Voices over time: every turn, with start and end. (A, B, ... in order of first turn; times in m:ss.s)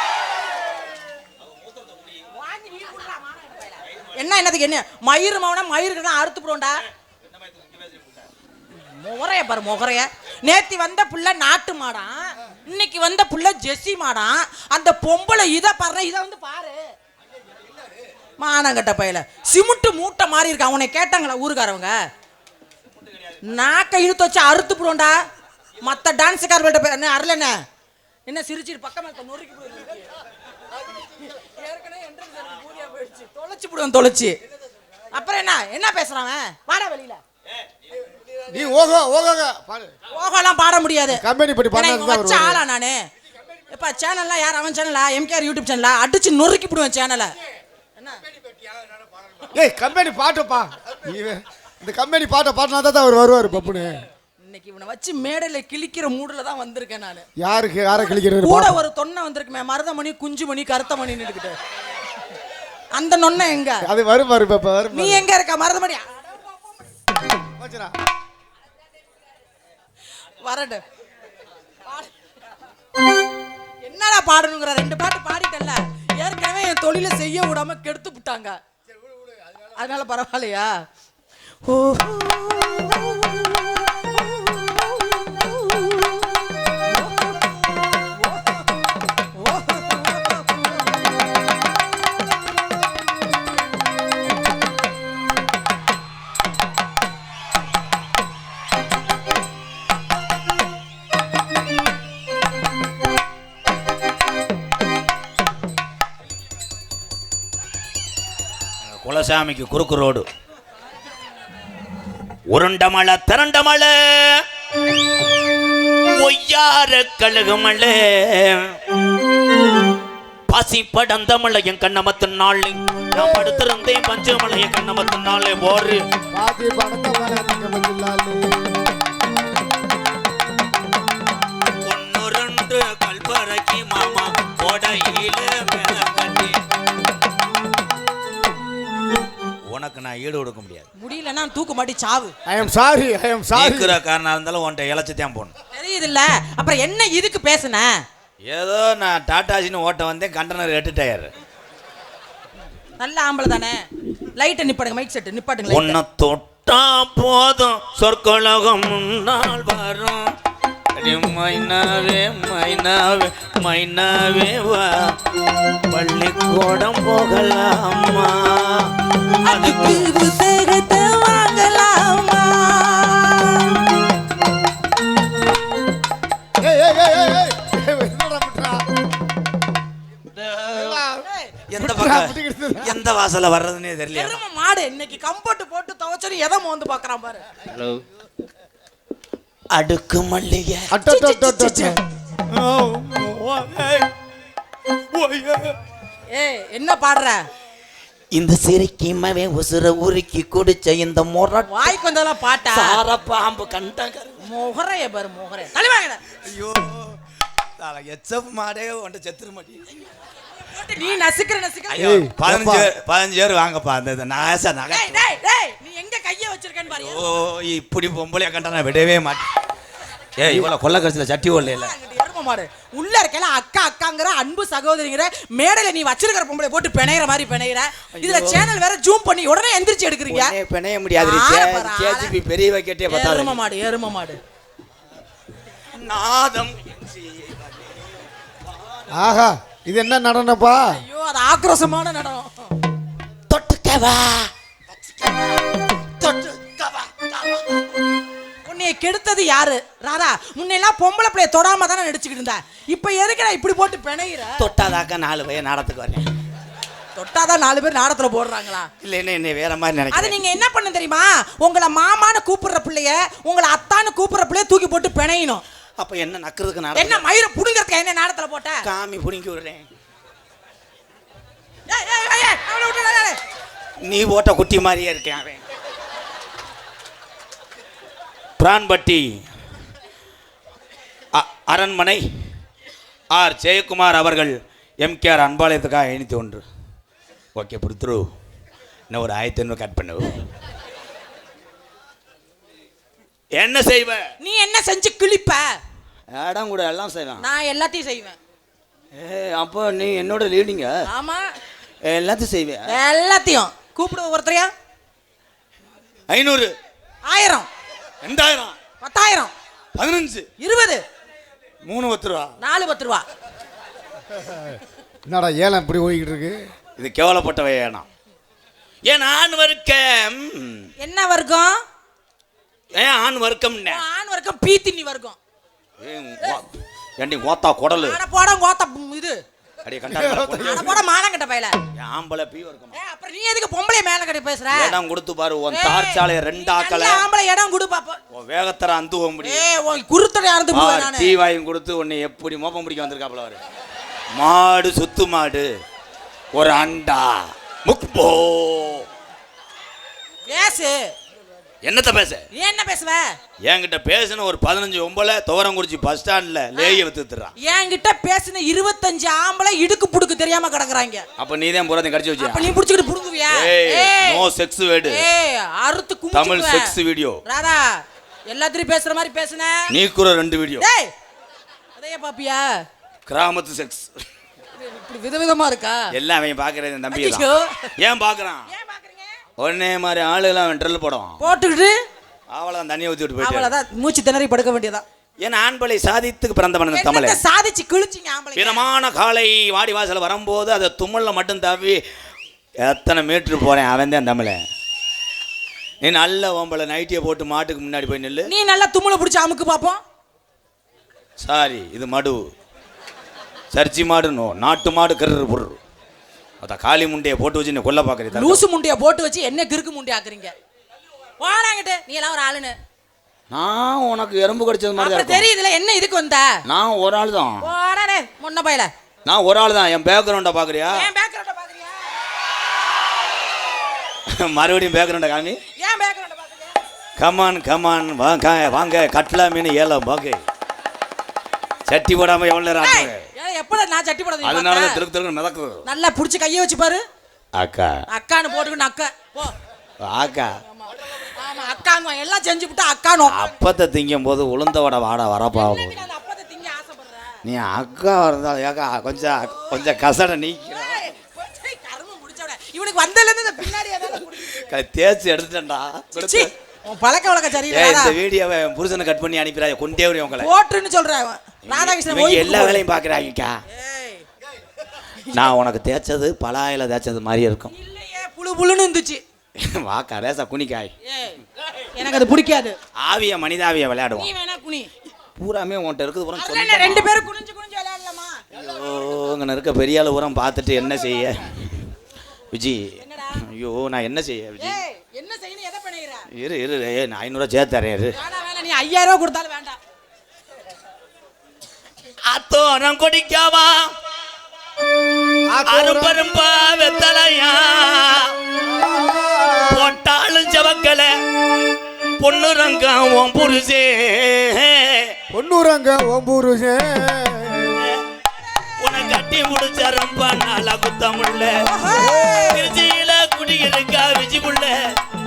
0:02.3-0:06.8 A
0:08.8-0:16.8 A
0:18.4-0:22.0 A
0:23.4-0:25.2 A
0:25.8-0:27.6 A
0:28.3-0:30.1 A
0:31.3-0:34.4 A
0:35.1-0:37.2 A
0:38.5-0:39.9 B
0:40.1-0:43.0 A
0:41.1-0:42.6 B
0:43.7-0:47.3 A
0:49.5-0:54.0 B
0:54.4-0:57.3 A
0:57.4-0:58.8 B
0:57.9-1:01.6 A
1:02.9-1:03.9 A
1:03.8-1:05.2 B
1:04.9-1:06.3 A
1:07.6-1:08.0 B
1:10.4-1:10.8 A
1:13.8-1:18.6 A
1:19.8-1:20.7 A
1:21.6-1:27.4 A
1:28.0-1:28.7 A
1:29.4-1:30.7 A
1:48.8-1:50.3 C
1:52.5-1:54.4 C
1:56.1-1:58.6 C
2:00.5-2:06.0 C
2:03.1-2:03.7 B
2:06.3-2:08.6 B
2:11.8-2:16.6 C
2:19.7-2:20.9 C
2:21.0-2:22.3 A
2:22.5-2:24.0 B
2:23.5-2:25.5 C
2:25.7-2:28.0 A
2:28.4-2:31.3 C
2:33.0-2:33.8 A
2:34.4-2:36.0 A
2:35.7-2:40.3 C
2:41.0-2:45.1 C
2:45.9-2:48.9 C
2:49.4-2:53.8 A
2:49.4-2:50.1 C
2:56.6-2:58.9 B
3:00.6-3:01.2 B
3:01.2-3:01.5 A
3:01.7-3:04.4 C
3:01.8-3:03.0 B
3:04.1-3:07.4 A
3:09.7-3:10.9 C
3:10.9-3:12.0 B
3:11.0-3:12.0 A
3:12.5-3:14.1 C
3:15.1-3:15.8 C
3:16.3-3:17.4 A
3:18.3-3:22.0 C
3:21.7-3:23.0 A
3:22.6-3:24.4 C
3:24.4-3:26.2 A
3:26.4-3:27.2 C
3:27.8-3:29.9 C
3:30.6-3:32.2 A
3:31.9-3:35.3 C
3:32.0-3:32.9 B
3:34.9-3:37.3 A
3:36.9-3:39.5 C
3:40.4-3:41.9 C
3:40.5-3:40.7 B
3:41.7-3:50.6 A
3:48.1-3:48.7 C
3:50.3-3:53.6 C
3:51.2-3:52.3 A
3:53.1-3:54.4 A
3:55.9-3:58.0 C
3:59.1-4:00.9 B
4:00.9-4:02.7 A
4:03.5-4:04.5 C
4:06.2-4:07.6 C
4:08.6-4:14.7 A
4:14.6-4:16.3 C
4:17.2-4:18.9 A
4:19.0-4:20.4 C
4:20.1-4:25.6 A
4:26.0-4:27.3 C
4:27.0-4:28.8 A
4:28.8-4:29.9 C
4:31.9-4:33.4 A
4:34.0-4:35.6 C
4:38.6-4:39.3 C
4:41.3-4:42.2 C
4:43.3-4:46.6 C
4:47.6-4:48.3 C
4:49.1-4:50.4 C
4:53.5-4:54.3 C
4:54.4-4:55.8 A
4:56.3-4:57.4 C
4:57.4-4:58.4 A
4:59.1-5:00.9 C
5:01.1-5:01.5 A
5:02.0-5:02.9 C
5:02.9-5:04.7 A
5:06.3-5:06.7 C
5:07.2-5:07.7 A
5:08.2-5:08.8 C
5:09.0-5:09.5 A
5:10.0-5:10.5 C
5:10.6-5:11.0 A
5:11.8-5:12.5 C
5:12.6-5:13.2 A
5:14.4-5:16.7 B
5:17.0-5:18.1 C
5:19.0-5:20.9 C
5:21.0-5:21.8 A
5:22.9-5:24.0 C
5:23.9-5:25.4 A
5:26.0-5:28.2 C
5:28.0-5:29.4 A
5:29.8-5:30.9 C
5:30.1-5:30.9 B
5:30.6-5:31.8 A
5:32.0-5:33.0 C
5:32.9-5:35.0 A
5:34.7-5:37.2 C
5:35.7-5:38.2 A
5:38.3-5:39.7 C
5:39.4-5:41.4 A
5:40.7-5:43.6 C
5:44.3-5:45.7 C
5:46.5-5:49.1 C
5:50.5-5:51.1 A
5:51.8-5:52.4 C
5:52.5-5:53.3 A
5:53.6-5:57.5 C
5:56.8-5:57.0 A
5:57.6-6:01.3 A
6:01.4-6:02.7 C
6:02.4-6:04.4 A
6:03.5-6:05.3 C
6:05.1-6:06.9 A
6:06.3-6:07.4 C
6:07.4-6:09.9 A
6:09.9-6:10.8 C
6:10.8-6:11.1 A
6:12.0-6:12.8 A
6:13.3-6:14.1 C
6:14.8-6:16.1 A
6:16.1-6:17.5 C
6:17.1-6:17.9 A
6:18.0-6:18.7 C
6:18.7-6:19.4 A
6:19.6-6:21.4 C
6:21.4-6:22.0 A
6:22.5-6:23.8 C
6:23.4-6:25.0 A
6:25.4-6:27.4 C
6:26.9-6:28.9 A
6:28.6-6:32.0 C
6:32.8-6:34.6 C
6:36.0-6:38.5 C
6:38.4-6:40.0 A
6:41.4-6:42.4 C
6:43.7-6:45.8 C
6:46.6-6:48.6 C
6:48.3-6:50.5 A
6:51.4-6:52.8 A
6:53.5-6:55.5 C
6:55.0-6:56.6 A
6:56.7-6:57.7 C
6:57.6-6:58.9 A
6:59.3-7:01.1 C
7:00.9-7:02.1 A
7:04.3-7:05.6 C
7:05.8-7:06.8 A
7:07.2-7:10.4 C
7:11.9-7:13.3 C
7:12.8-7:15.0 A
7:14.4-7:15.9 C
7:15.8-7:17.0 A
7:17.5-7:17.9 C
7:18.1-7:19.6 A
7:20.0-7:20.6 C
7:20.7-7:23.5 A
7:23.3-7:26.0 C
7:25.5-7:27.4 A
7:27.4-7:31.1 C
7:30.7-7:34.7 A
7:34.6-7:36.5 C
7:36.2-7:38.2 A
7:37.7-7:40.5 C
7:40.4-7:42.8 A
7:41.7-7:43.6 C
7:43.7-7:44.2 A
7:45.3-7:47.7 C
7:47.7-7:49.2 A
7:49.6-7:50.9 C
7:51.0-7:52.8 A
7:53.0-7:54.3 C
7:54.2-7:54.9 A
7:55.4-7:57.2 C
7:56.4-7:58.4 A
7:58.5-8:01.9 C
8:02.5-8:02.8 C
8:03.0-8:03.4 A
8:03.4-8:04.8 C
8:04.6-8:06.3 A
8:06.3-8:08.2 C
8:08.1-8:09.8 A
8:12.2-8:13.9 C
8:15.5-8:16.2 B
8:15.6-8:18.3 C
8:18.6-8:19.9 B
8:19.7-8:21.1 C
8:22.2-8:25.2 C
8:25.3-8:27.8 B
8:28.8-8:31.5 C
8:31.7-8:32.6 A
8:31.9-8:32.7 B
8:32.5-8:34.8 C